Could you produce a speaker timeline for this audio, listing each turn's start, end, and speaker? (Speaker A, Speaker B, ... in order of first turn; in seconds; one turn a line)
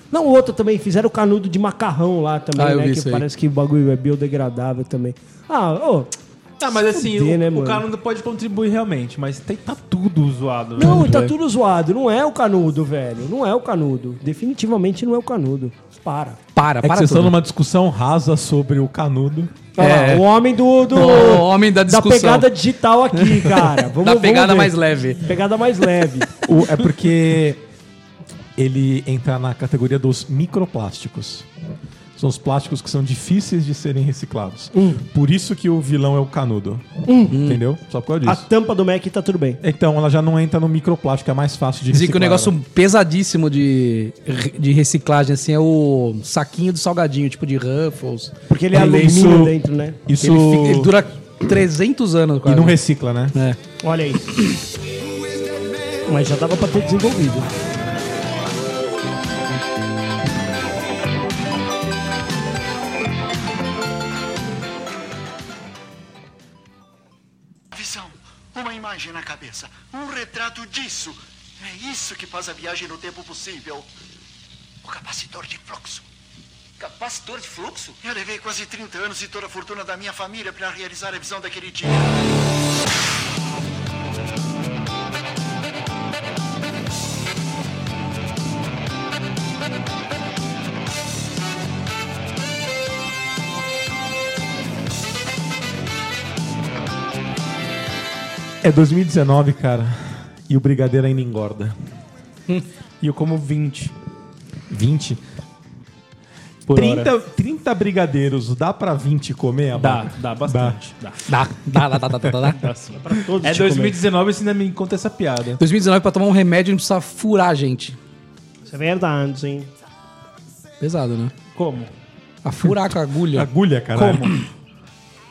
Speaker A: 0.1-6.1
Speaker B: 2.6-3.3
Speaker C: 6.6-11.1
Speaker A: 6.8-7.8
Speaker A: 10.8-16.4
Speaker B: 10.8-11.3
Speaker B: 16.6-17.4
Speaker D: 16.8-19.5
Speaker A: 19.8-26.3
Speaker B: 19.8-20.2
Speaker B: 20.9-22.5
Speaker B: 23.2-25.2
Speaker D: 26.4-27.6
Speaker D: 28.6-31.5
Speaker D: 32.2-38.5
Speaker A: 34.8-35.0
Speaker A: 37.1-37.4
Speaker B: 37.3-37.6
Speaker A: 38.2-39.6
Speaker D: 39.6-42.5
Speaker B: 41.9-49.0
Speaker A: 48.5-50.0
Speaker D: 48.7-50.9
Speaker B: 50.2-52.8
Speaker D: 52.5-53.4
Speaker A: 53.8-54.2
Speaker A: 56.0-57.5
Speaker E: 67.7-73.9
Speaker E: 74.8-76.0
Speaker E: 76.8-82.2
Speaker D: 98.6-101.8
Speaker C: 103.0-103.9
Speaker D: 104.7-105.2
Speaker C: 106.7-107.1
Speaker D: 106.7-110.8
Speaker C: 109.8-111.2
Speaker B: 111.3-112.7
Speaker C: 112.6-115.6
Speaker A: 113.0-114.0
Speaker B: 115.6-118.0
Speaker A: 118.7-119.7
Speaker B: 120.8-121.3
Speaker C: 121.5-121.9
Speaker B: 122.4-123.5
Speaker D: 123.3-124.3
Speaker C: 124.0-124.3